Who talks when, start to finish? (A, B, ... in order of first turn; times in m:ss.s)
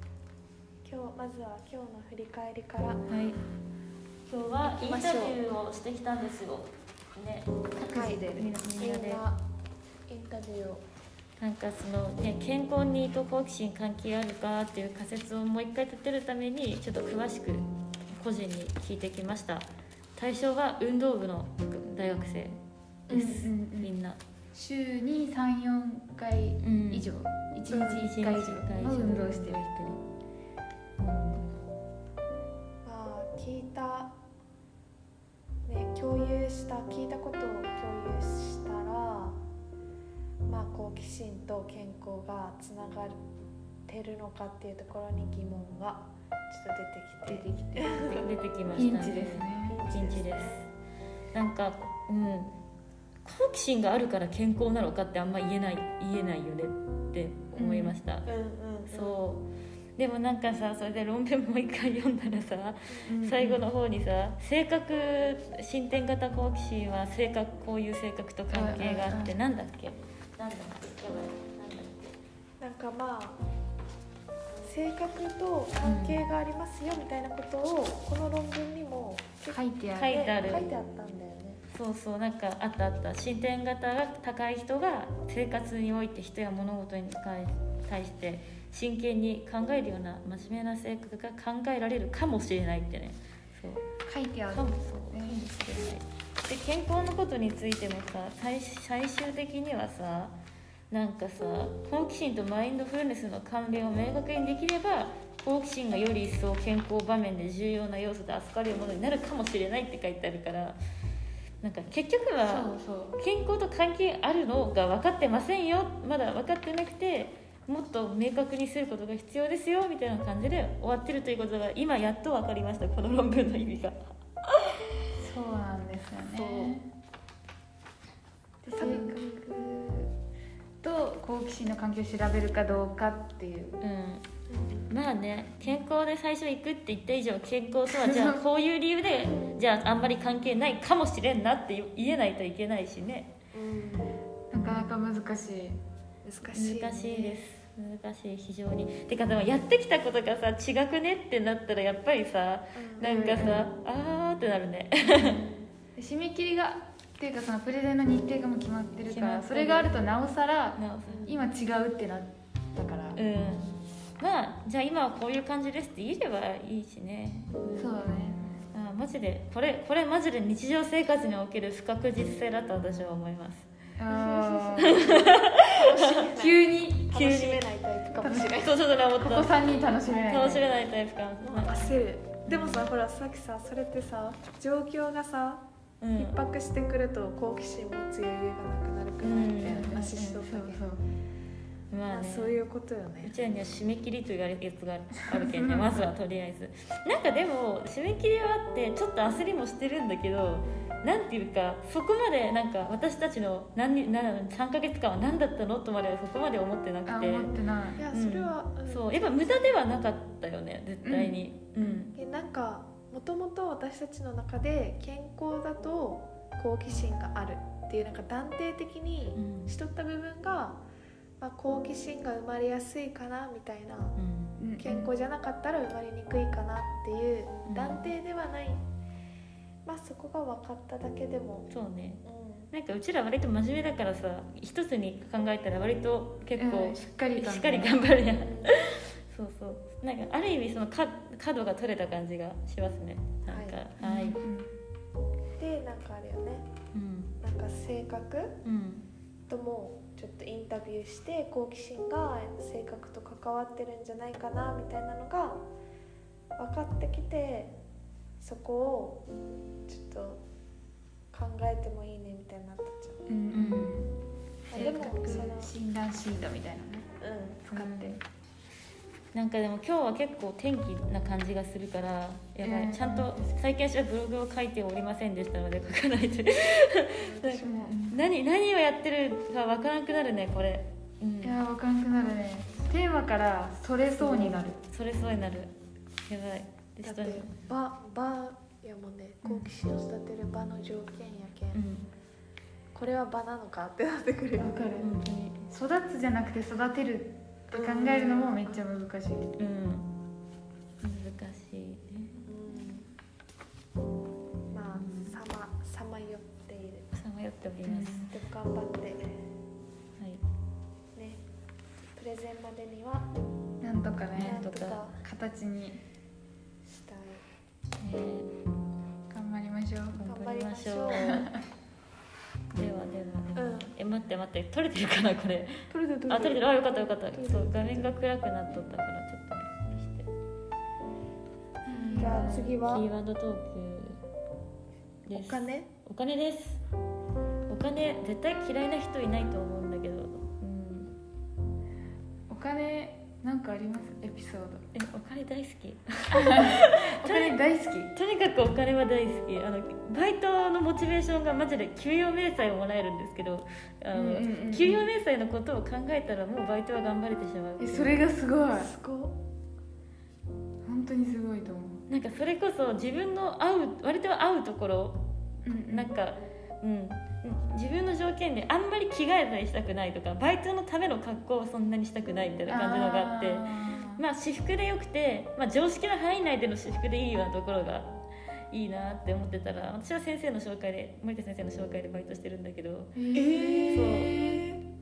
0:00.8-0:03.0 A
0:03.1-0:03.4 B
0:04.3-0:09.2 B
0:04.8-0:05.4 A
0:07.9-0:09.4 A
0:10.1-0:10.8 A
0:11.4-0:22.6 B
0:23.1-0:23.4 A
0:23.1-0:24.2 B
0:23.1-0:23.9 C
0:24.5-0:29.9 C
0:26.6-0:27.1 B
0:27.7-0:28.0 A
0:27.8-0:30.0 B
0:31.0-0:31.5 B
0:32.8-0:34.1 A
0:35.6-0:39.4 A
0:40.4-0:43.2 A
0:43.9-0:49.0 A
0:47.2-0:49.8 C
0:48.2-0:50.6 B
0:49.6-0:50.6 A
0:51.3-0:52.5 B
0:53.2-0:58.2 B
0:57.5-0:58.0 C
0:58.2-0:59.2 A
0:58.9-0:59.4 B
1:00.0-1:12.2 B
1:03.0-1:03.6 C
1:08.5-1:09.4 C
1:12.6-1:13.4 A
1:14.6-1:21.6 A
1:15.8-1:16.2 B
1:19.5-1:20.3 C
1:20.0-1:20.7 B
1:21.7-1:33.8 B
1:34.0-1:35.5 C
1:34.5-1:40.3 B
1:40.9-1:50.8 B
1:51.6-2:04.0 B
1:52.4-1:53.2 C
2:05.2-2:06.8 C
2:06.3-2:06.7 A
2:08.6-2:10.1 C
2:08.7-2:09.7 A
2:10.8-2:13.8 C
2:13.8-2:14.2 B
2:14.5-2:14.9 A
2:14.9-2:23.3 B
2:17.9-2:18.4 C
2:19.3-2:19.6 A
2:23.5-2:24.2 A
2:24.5-2:26.6 C
2:24.6-2:24.8 B
2:26.4-2:27.4 A
2:26.5-2:35.4 B
2:32.7-2:33.1 A
2:33.0-2:33.7 C
2:35.2-2:35.7 A
2:36.0-2:43.2 C
2:39.0-2:40.0 B
2:40.8-2:41.3 B
2:41.1-2:41.5 A
2:43.2-2:48.0 B
2:47.8-2:48.5 C
2:48.7-2:53.6 B
2:54.0-2:55.2 C
2:54.1-2:58.9 A
2:54.8-2:56.2 B
2:56.4-2:57.2 C
2:57.1-2:57.6 B
2:58.2-2:58.6 C
2:58.6-3:01.9 B
2:59.1-3:00.6 C
3:01.4-3:05.6 A
3:02.4-3:02.9 B
3:06.0-3:06.4 B
3:06.1-3:10.8 A
3:09.2-3:10.0 B
3:09.6-3:11.0 C
3:11.9-3:12.6 B
3:12.0-3:13.3 A
3:13.2-3:27.5 B
3:15.3-3:16.1 C
3:20.6-3:20.9 A
3:27.0-3:28.0 C
3:27.4-3:29.8 A
3:28.1-3:32.1 B
3:31.0-3:32.1 C
3:32.1-3:40.8 A
3:39.3-3:39.7 B
3:41.4-3:44.2 A
3:44.2-3:44.6 B
3:44.6-3:45.1 C
3:44.8-3:48.8 A
3:47.6-3:48.0 B
3:49.8-3:51.7 A
3:51.7-4:04.4 B
3:52.2-3:52.7 A
3:56.6-3:58.0 C
3:58.4-3:58.8 A
4:03.5-4:03.8 A
4:04.0-4:04.7 C
4:05.6-4:06.6 A
4:06.9-4:07.3 B
4:07.4-4:08.6 A
4:08.6-4:09.0 B
4:09.5-4:15.6 A
4:16.6-4:17.7 A
4:18.4-4:19.2 A
4:19.9-4:20.4 A
4:21.3-4:23.2 A
4:23.3-4:24.2 C
4:23.5-4:24.0 B
4:24.7-4:25.7 A
4:24.7-4:27.1 C
4:24.7-4:25.5 B
4:27.2-4:27.6 A
4:27.6-4:28.2 C
4:27.7-4:28.2 B
4:29.3-4:41.6 B
4:32.6-4:33.4 C
4:37.1-4:38.0 A
4:37.6-4:38.2 C
4:41.4-4:44.8 C
4:44.2-4:45.7 B
4:46.3-4:47.5 B
4:47.0-4:51.8 A
4:49.4-4:49.7 C
4:51.7-4:52.1 B
4:52.9-4:55.1 A
4:54.6-4:59.5 C
4:55.0-4:55.3 B
4:57.7-4:58.8 A
4:59.6-5:00.1 B
5:01.0-5:02.4 B
5:02.4-5:03.1 A
5:04.7-5:07.0 A
5:04.9-5:05.4 B
5:07.1-5:08.2 B
5:07.8-5:08.3 C
5:08.2-5:09.3 A
5:11.2-5:11.4 A
5:12.1-5:13.3 A
5:13.8-5:14.7 C
5:14.4-5:15.0 B
5:14.4-5:15.2 A
5:15.2-5:16.0 C
5:16.8-5:17.4 A
5:18.0-5:18.5 B
5:19.3-5:20.2 C
5:20.2-5:21.4 B
5:20.2-5:21.5 A
5:21.1-5:21.6 C
5:22.7-5:25.7 B
5:23.6-5:23.9 A
5:25.9-5:28.2 A
5:26.3-5:30.3 B
5:31.8-5:32.8 C
5:31.9-5:33.1 A
5:32.1-5:34.2 B
5:35.2-5:36.8 B
5:35.3-5:35.9 A
5:37.7-5:41.1 B
5:42.5-5:44.8 C
5:44.9-5:47.5 B
5:46.3-5:48.1 C
5:48.1-5:58.2 B
5:54.1-5:55.0 C
5:57.8-5:58.9 C
5:58.7-5:59.4 A
6:00.8-6:02.0 C
6:02.1-6:05.2 B
6:05.6-6:06.1 C
6:05.9-6:18.1 B
6:12.7-6:14.2 C
6:18.7-6:23.1 B
6:23.1-6:24.6 C
6:23.3-6:24.8 A
6:23.9-6:24.3 B